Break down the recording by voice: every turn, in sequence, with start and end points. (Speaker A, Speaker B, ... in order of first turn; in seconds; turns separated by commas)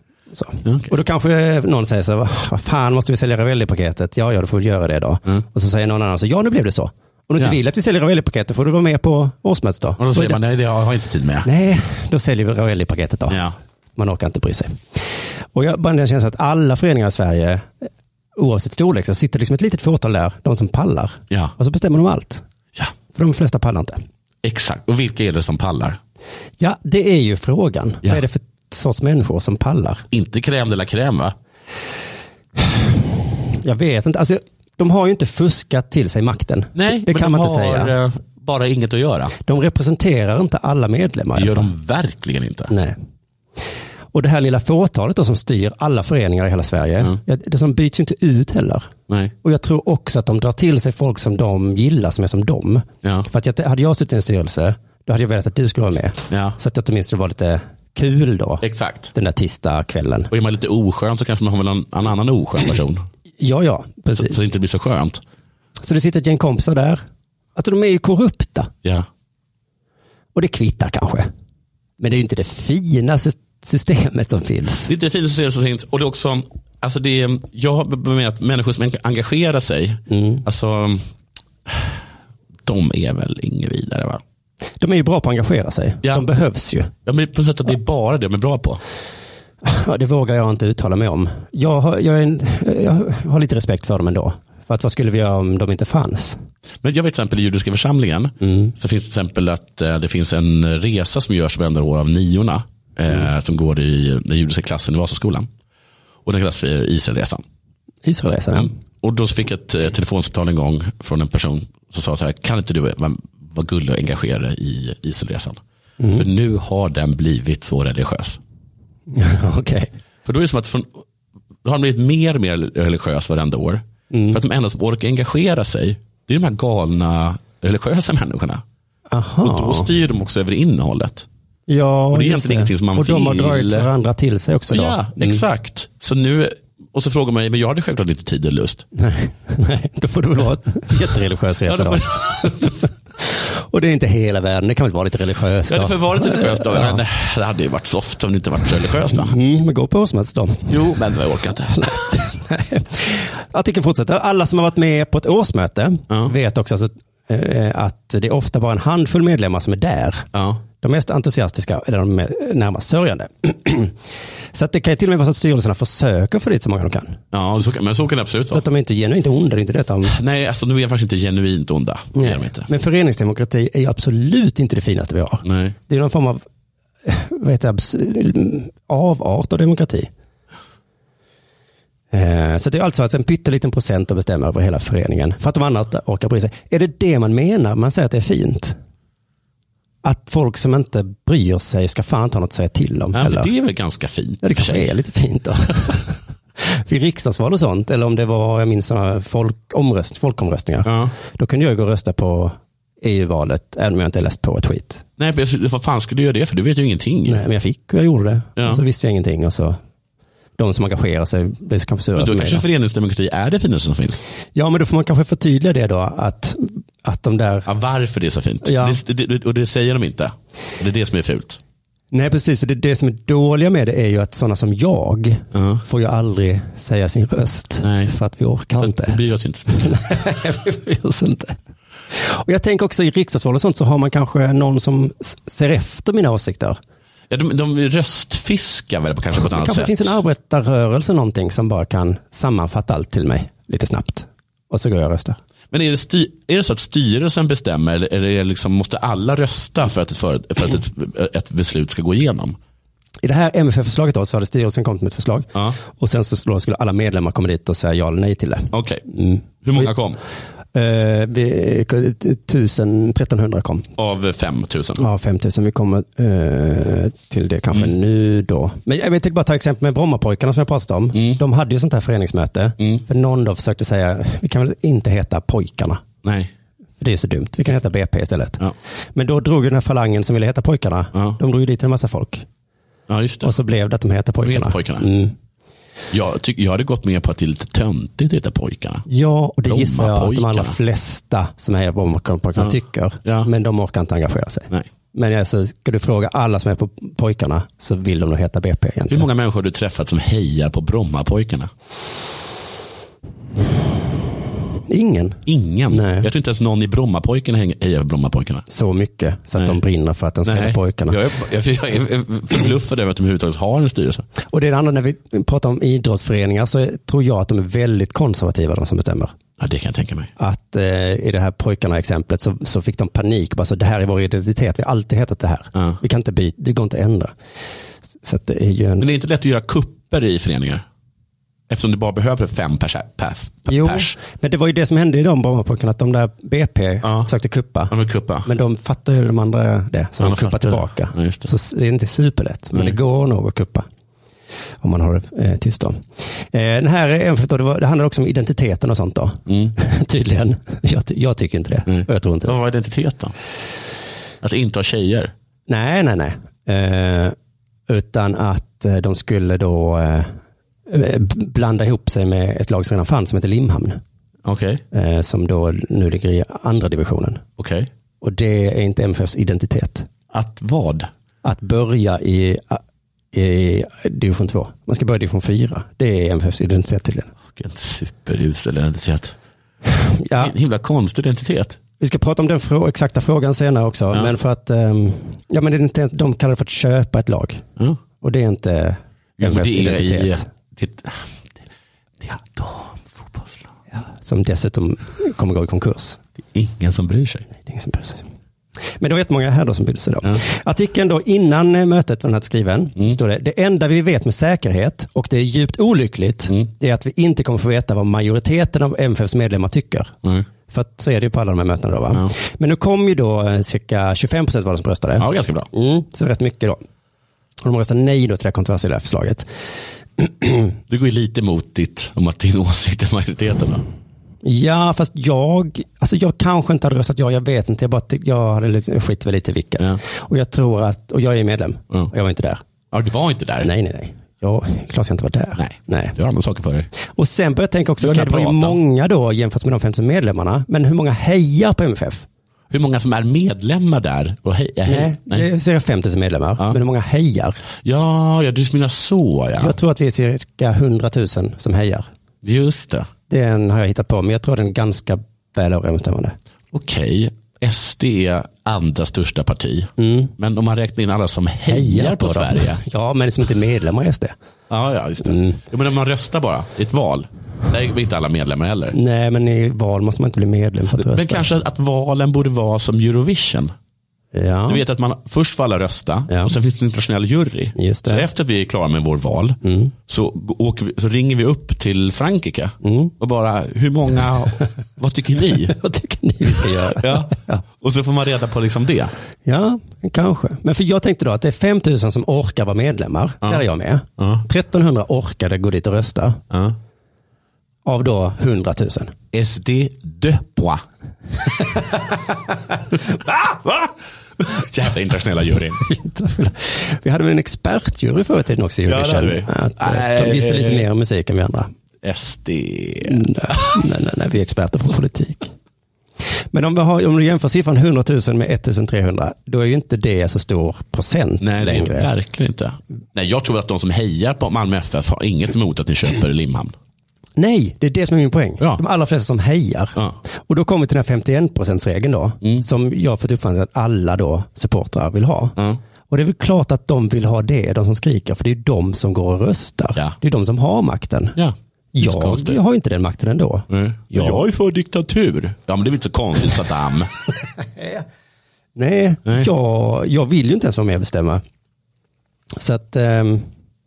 Speaker A: 0.3-10.4, Speaker B: 0.6-0.9, Speaker B: 10.0-11.5, Speaker A: 11.4-13.4, Speaker B: 13.3-13.6, Speaker A: 13.9-22.4, Speaker A: 23.1-24.0, Speaker B: 24.4-26.0, Speaker A: 26.6-30.0, Speaker B: 30.1-31.3, Speaker A: 32.6-37.9, Speaker B: 36.8-39.3, Speaker A: 39.4-41.7, Speaker B: 41.3-42.7, Speaker A: 42.7-43.0, Speaker A: 44.1-48.9, Speaker B: 49.1-49.3, Speaker A: 49.4-60.3, Speaker B: 53.0-53.3, Speaker B: 56.3-56.6, Speaker B: 58.6-59.1, Speaker B: 60.3-63.0, Speaker A: 63.4-64.4, Speaker B: 64.2-65.2, Speaker A: 65.8-67.0, Speaker A: 67.5-68.7, Speaker A: 70.3-71.3, Speaker A: 72.0-74.9, Speaker B: 74.8-81.0, Speaker A: 80.1-80.4, Speaker B: 81.7-82.0, Speaker B: 82.7-84.2, Speaker A: 84.8-86.9, Speaker B: 87.0-88.8, Speaker A: 89.6-96.4, Speaker B: 96.8-105.5, Speaker A: 98.4-98.7, Speaker B: 106.2-107.4, Speaker A: 108.0-108.7, Speaker B: 108.5-115.6, Speaker A: 116.0-116.3, Speaker B: 116.1-118.4, Speaker A: 119.1-119.9, Speaker B: 120.2-121.0, Speaker B: 121.6-128.6, Speaker A: 124.1-124.4, Speaker A: 129.1-129.9, Speaker B: 129.4-131.3, Speaker A: 131.7-135.4, Speaker B: 132.1-133.9, Speaker B: 134.7-138.8, Speaker A: 138.9-147.0, Speaker B: 141.7-142.8, Speaker B: 145.7-149.3, Speaker A: 149.1-150.7, Speaker B: 150.7-152.2, Speaker A: 151.8-160.3, Speaker B: 160.3-160.6, Speaker A: 160.8-163.9, Speaker A: 164.5-167.2, Speaker B: 167.3-168.6, Speaker A: 168.5-170.2, Speaker B: 170.0-172.7, Speaker A: 172.1-176.4, Speaker B: 175.4-175.8, Speaker A: 177.0-180.1, Speaker A: 182.1-188.8, Speaker A: 190.0-193.5, Speaker B: 193.1-194.9, Speaker A: 194.4-205.0, Speaker B: 200.8-201.1, Speaker B: 205.2-207.4, Speaker A: 207.2-209.8, Speaker B: 208.6-208.8, Speaker A: 210.6-212.6, Speaker B: 212.2-214.2, Speaker A: 214.6-217.7, Speaker B: 217.7-221.6, Speaker A: 218.6-219.0, Speaker A: 222.1-231.6, Speaker B: 225.5-225.8, Speaker B: 227.8-228.2, Speaker B: 228.8-230.0, Speaker A: 232.1-236.8, Speaker B: 237.3-240.1, Speaker A: 239.4-245.4, Speaker B: 245.7-252.6, Speaker A: 253.2-259.9, Speaker B: 258.7-259.0, Speaker B: 259.6-260.2, Speaker A: 260.7-263.9, Speaker B: 264.0-265.0, Speaker A: 265.0-276.0, Speaker B: 271.1-271.4, Speaker B: 272.8-273.0, Speaker B: 276.2-276.5, Speaker A: 277.0-278.6, Speaker A: 279.1-282.4, Speaker B: 283.1-283.5, Speaker A: 283.4-285.3, Speaker B: 284.4-285.1, Speaker B: 286.1-289.0, Speaker A: 289.1-299.3, Speaker B: 289.6-290.8, Speaker B: 292.6-293.5, Speaker B: 299.1-301.7, Speaker A: 304.9-306.3, Speaker B: 305.4-308.6, Speaker A: 308.7-311.2, Speaker B: 309.6-309.8, Speaker B: 310.4-314.2, Speaker A: 314.4-319.3, Speaker B: 319.6-320.3, Speaker A: 320.4-327.3, Speaker A: 328.2-329.1, Speaker B: 329.0-330.8, Speaker B: 331.7-334.2, Speaker A: 333.7-337.9, Speaker B: 337.0-337.3, Speaker B: 337.9-338.5, Speaker A: 338.4-343.9, Speaker B: 340.2-341.5, Speaker A: 344.8-352.6, Speaker B: 349.5-349.7, Speaker B: 351.9-353.3, Speaker B: 354.4-355.3, Speaker A: 355.7-357.4, Speaker A: 357.9-360.3, Speaker A: 360.9-364.0, Speaker B: 364.4-364.8, Speaker A: 364.9-367.4, Speaker B: 367.6-367.9, Speaker A: 368.2-370.1, Speaker B: 370.3-371.1, Speaker A: 371.4-372.8, Speaker A: 373.3-377.3, Speaker B: 377.5-379.4, Speaker A: 379.9-380.5, Speaker B: 380.4-381.8, Speaker A: 382.0-387.6, Speaker A: 388.2-390.4, Speaker B: 389.4-391.6, Speaker B: 392.2-393.7, Speaker A: 393.9-396.2, Speaker B: 396.5-397.4, Speaker A: 397.5-398.2, Speaker A: 399.0-410.1, Speaker A: 410.7-416.8, Speaker B: 415.2-415.7, Speaker A: 417.6-419.5, Speaker A: 420.2-420.7, Speaker B: 420.9-423.8, Speaker A: 424.4-432.6, Speaker B: 432.9-433.7, Speaker A: 433.6-436.1, Speaker B: 435.6-436.9, Speaker A: 437.0-442.2, Speaker B: 438.0-438.8, Speaker B: 442.7-445.5, Speaker A: 444.9-447.6, Speaker B: 447.8-449.8, Speaker A: 449.6-452.1, Speaker B: 452.4-453.1, Speaker A: 453.3-456.3, Speaker B: 456.7-462.8, Speaker A: 460.0-460.3, Speaker A: 461.7-464.3, Speaker B: 464.7-468.9, Speaker A: 465.2-465.6, Speaker A: 468.9-471.4, Speaker B: 470.9-473.7, Speaker A: 474.3-474.8, Speaker B: 474.7-485.8, Speaker A: 476.3-476.5, Speaker A: 477.8-478.2, Speaker A: 479.6-479.9, Speaker A: 482.8-483.1, Speaker A: 485.7-487.6, Speaker B: 486.6-489.1, Speaker A: 489.4-496.4, Speaker B: 494.2-494.4, Speaker B: 496.5-496.8, Speaker A: 497.8-499.1, Speaker B: 499.3-500.8, Speaker B: 503.6-505.8, Speaker A: 505.8-511.7, Speaker B: 508.8-510.9, Speaker B: 512.0-513.7, Speaker A: 513.0-515.5, Speaker A: 516.5-522.1, Speaker B: 521.4-526.7, Speaker A: 527.4-535.5, Speaker A: 536.1-541.4, Speaker B: 541.4-542.6, Speaker A: 541.9-544.5, Speaker B: 543.7-547.1, Speaker A: 547.6-548.0, Speaker A: 548.8-551.4, Speaker A: 552.5-553.5